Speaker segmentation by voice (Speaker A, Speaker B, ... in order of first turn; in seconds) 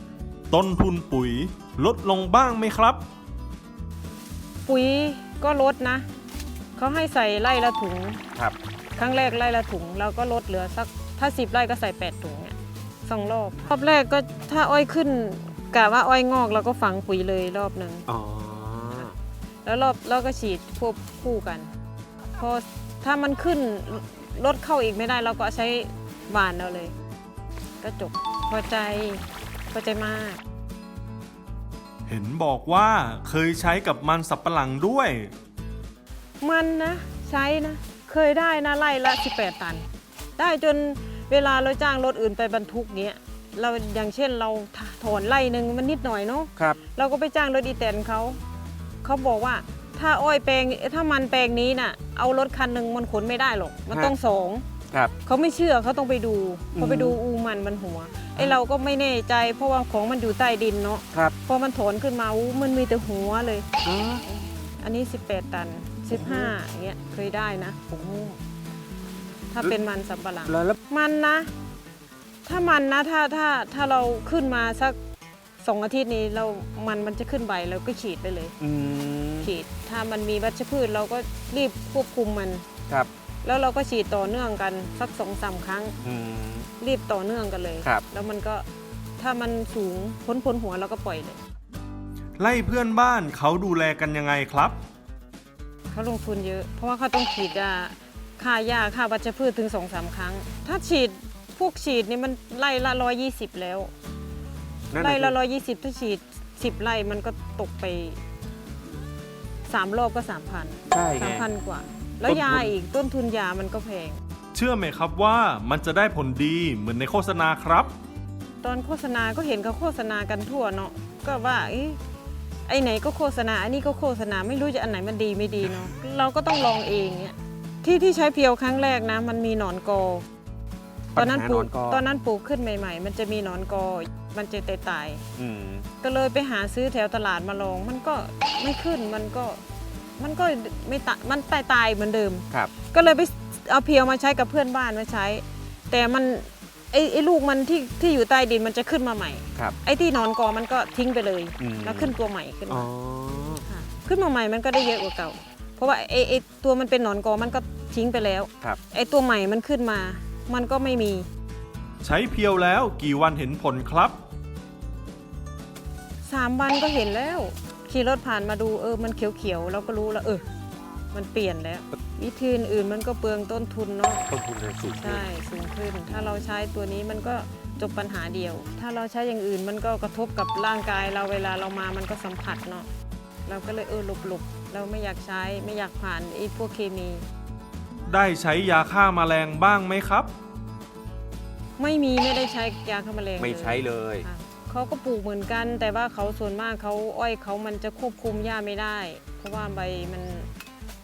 Speaker A: 0.5-3.0, 32.1-35.3, 92.4-94.8, 114.5-117.9, 162.0-164.2, 188.1-190.3
Speaker B: 4.6-6.1, 6.8-8.2, 8.9-18.1, 19.6-21.7, 22.4-26.9, 27.8-30.4, 36.4-48.4, 49.0-54.6, 55.2-63.7, 64.3-67.9, 69.5-71.5, 72.4-75.0, 75.6-78.5, 79.4-82.6, 83.4-86.0, 86.8-88.6, 89.2-91.4, 95.9-103.9, 105.0-108.2, 109.7-114.2, 118.6-122.0, 122.7-130.2, 131.2-135.3, 136.0-139.6, 140.2-152.9, 153.6-161.3, 166.2-170.4, 171.1-174.3, 175.0-182.9, 183.4-187.3, 191.8-200.5
Speaker C: 18.1-19.1, 56.7-57.2, 63.8-64.2, 66.1-66.5, 67.9-68.4, 70.5-70.8, 78.6-79.5, 86.0-86.7, 104.9-105.4, 110.9-111.5, 112.2-112.7, 131.1-132.0, 135.3-135.9, 151.6-152.1, 152.7-153.7, 174.3-175.2, 176.1-176.4, 193.4-194.3